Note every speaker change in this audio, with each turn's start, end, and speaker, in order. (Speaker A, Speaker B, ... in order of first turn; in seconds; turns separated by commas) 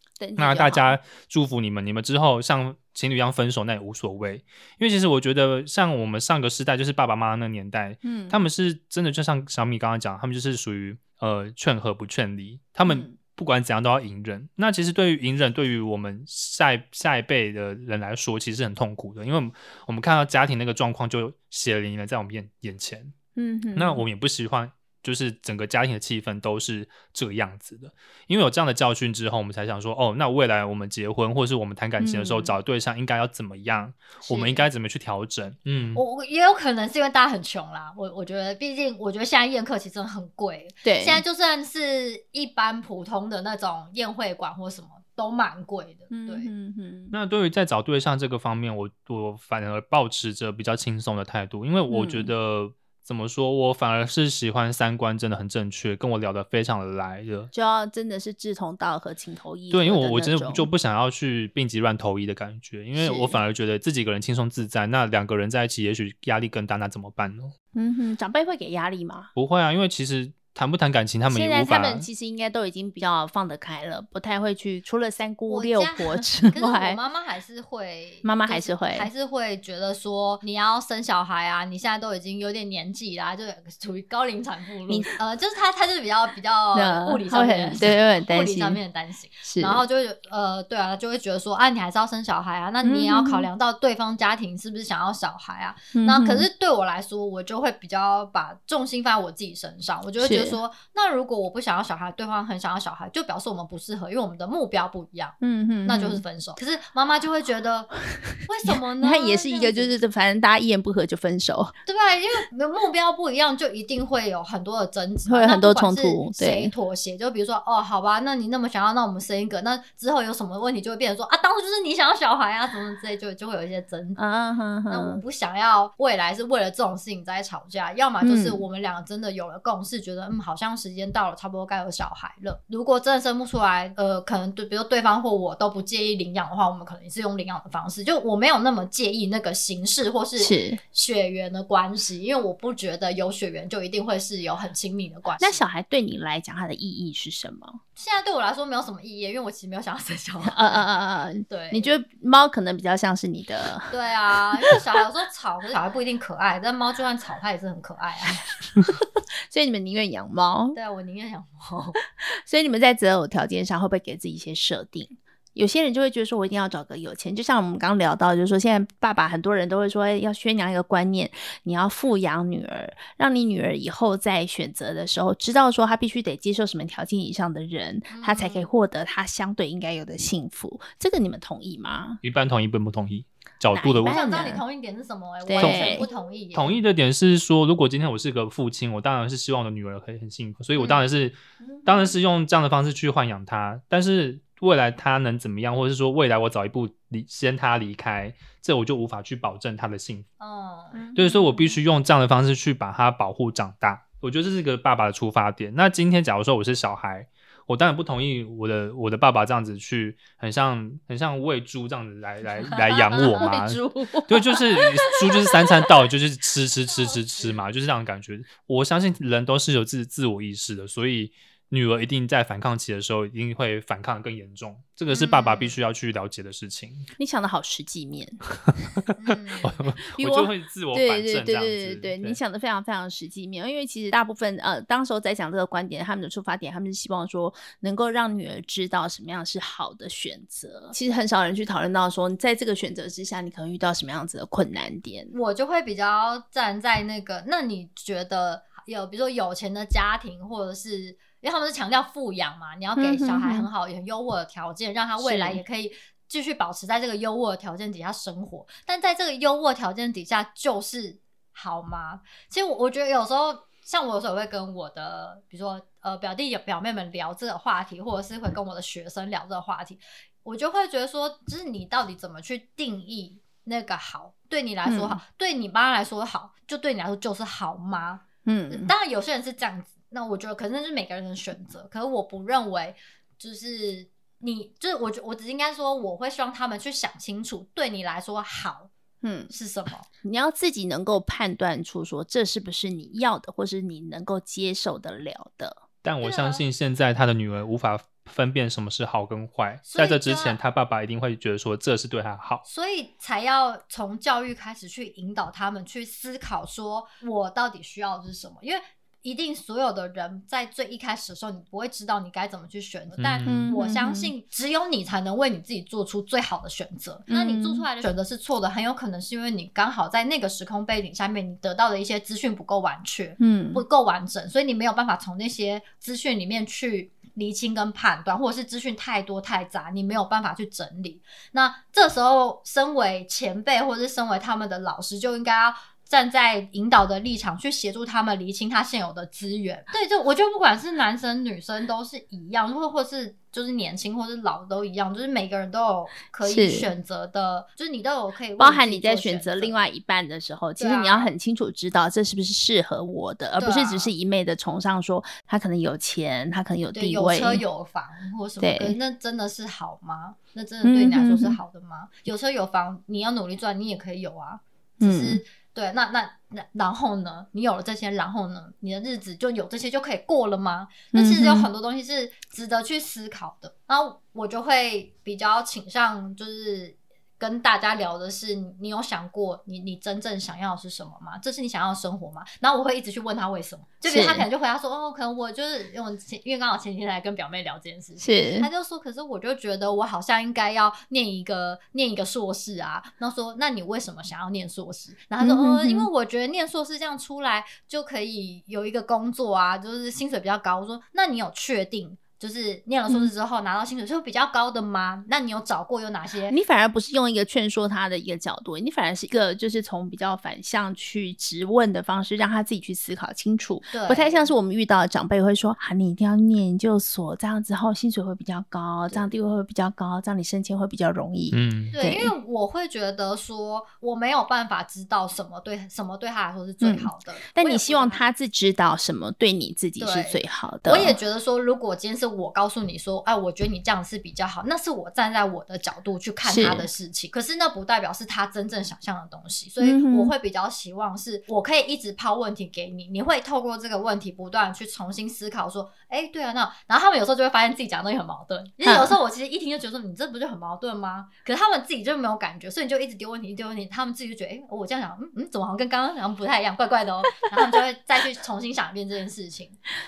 Speaker A: 0.2-1.0, Speaker B: 0.4-23.1, Speaker A: 8.0-8.4, Speaker A: 12.9-13.2, Speaker A: 23.4-24.0, Speaker B: 23.7-36.0, Speaker A: 32.0-32.5, Speaker A: 34.2-34.6, Speaker C: 35.9-46.5, Speaker A: 40.8-41.2, Speaker A: 46.1-47.1, Speaker B: 47.1-57.5, Speaker A: 51.9-52.3, Speaker A: 57.5-60.7, Speaker B: 59.7-67.5, Speaker A: 63.0-63.4, Speaker A: 67.7-69.3, Speaker B: 69.3-72.1, Speaker A: 71.3-77.0, Speaker C: 75.5-109.9, Speaker A: 78.2-79.1, Speaker A: 84.9-85.1, Speaker A: 86.7-88.8, Speaker A: 89.4-89.8, Speaker A: 92.8-93.5, Speaker A: 95.9-96.5, Speaker A: 100.2-100.6, Speaker A: 105.4-106.2, Speaker A: 109.0-111.7, Speaker C: 111.9-124.2, Speaker A: 115.3-116.7, Speaker A: 124.2-125.2, Speaker C: 124.9-145.6, Speaker A: 128.2-128.6, Speaker A: 140.4-140.8, Speaker A: 145.4-147.8, Speaker C: 148.0-150.8, Speaker A: 150.5-153.9, Speaker C: 151.5-151.9, Speaker C: 153.9-158.6, Speaker A: 159.5-160.8, Speaker C: 160.7-162.0, Speaker A: 162.1-182.2, Speaker C: 178.1-178.7, Speaker B: 182.2-184.1, Speaker A: 183.7-184.6, Speaker C: 184.1-186.8, Speaker A: 185.4-186.1, Speaker B: 185.6-200.3, Speaker A: 191.6-192.1, Speaker C: 200.4-201.0, Speaker A: 200.9-201.8, Speaker B: 201.2-227.1, Speaker A: 212.7-215.9, Speaker C: 216.9-217.6, Speaker C: 225.1-225.8, Speaker A: 227.2-228.4, Speaker B: 229.0-232.4, Speaker C: 229.2-229.9, Speaker A: 230.1-245.3, Speaker C: 245.3-288.9, Speaker A: 253.0-253.7, Speaker A: 255.2-255.6, Speaker A: 274.9-275.2, Speaker A: 278.4-278.9, Speaker A: 289.2-289.5, Speaker C: 289.5-290.1, Speaker A: 290.2-295.8, Speaker B: 296.0-302.6, Speaker C: 296.2-296.6, Speaker C: 299.9-300.6, Speaker C: 302.6-349.8, Speaker B: 313.2-313.7, Speaker A: 313.4-314.3, Speaker A: 317.3-317.9, Speaker A: 323.4-323.8, Speaker A: 346.4-346.9, Speaker A: 348.6-357.6, Speaker C: 350.8-351.3, Speaker C: 353.6-354.1, Speaker C: 356.9-406.6, Speaker A: 358.6-358.9, Speaker A: 360.8-361.6, Speaker A: 365.0-365.4, Speaker A: 371.1-371.7, Speaker A: 384.1-384.5, Speaker A: 388.2-388.7, Speaker A: 395.4-396.1, Speaker A: 406.5-422.3, Speaker C: 413.9-414.5, Speaker B: 421.5-421.9, Speaker C: 421.9-428.2, Speaker A: 426.8-431.2, Speaker C: 430.0-459.8, Speaker A: 436.4-436.9, Speaker A: 439.8-440.3, Speaker A: 448.8-449.1